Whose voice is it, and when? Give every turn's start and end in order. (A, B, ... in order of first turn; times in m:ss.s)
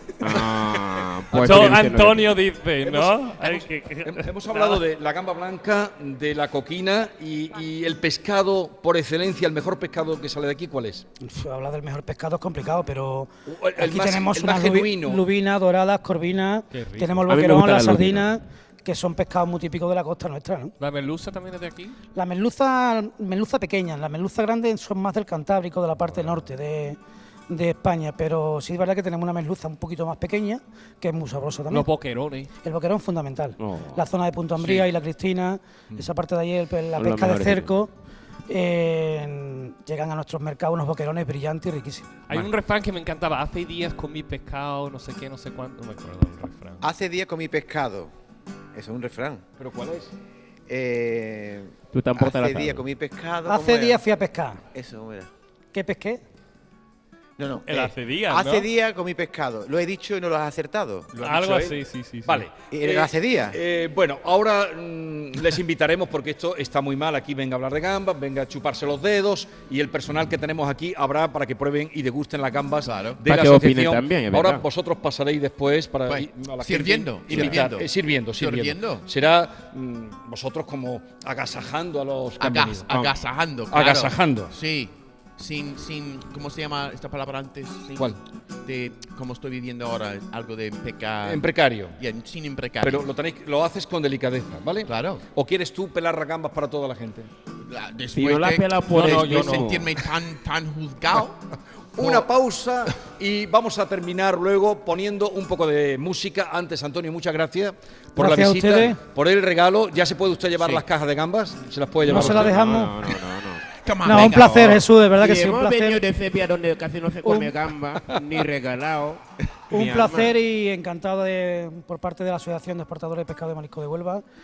0:00.2-0:02.4 A
0:01.3-0:02.0 B
0:01.4-0:04.8 C
0:02.8-0:11.0 B
0:11.2-0:20.7 D
0:13.5-0:15.2 B
0:16.7-0:17.2 C
0:17.3-0:18.3 A
0:20.8-0:22.0 C
0:22.1-0:31.9 D
0:31.7-0:32.5 C
0:32.6-0:37.9 D
0:33.6-0:34.0 A
0:34.6-0:34.9 B
0:37.0-0:37.7 A
0:38.5-0:42.1 D
0:42.3-0:46.8 C
0:46.8-0:48.1 E
0:48.7-0:49.4 E
0:49.6-0:50.1 B
0:50.7-0:54.0 E
0:51.9-0:52.8 A
0:53.4-0:54.6 D
0:54.7-0:55.3 E
0:55.7-0:56.2 D
0:57.4-1:01.1 E
0:57.6-0:58.7 C
1:01.1-1:23.1 B
1:01.2-1:02.4 C
1:02.7-1:03.6 E
1:12.8-1:13.2 F
1:13.3-1:14.6 A
1:16.0-1:19.0 F
1:22.4-1:28.1 F
1:23.7-1:24.5 B
1:28.6-1:33.1 F
1:31.2-1:32.0 B
1:32.8-1:37.3 B
1:34.9-1:35.2 F
1:37.7-1:41.4 F
1:38.1-1:39.9 A
1:38.9-1:39.7 C
1:42.0-1:52.8 B
1:42.0-1:42.3 F
1:48.2-1:49.0 D
1:52.0-1:52.9 D
1:52.0-1:53.6 A
1:53.8-1:54.9 F
1:54.0-1:56.0 D
1:55.2-2:00.3 A
1:57.2-1:57.6 D
1:59.7-2:04.2 D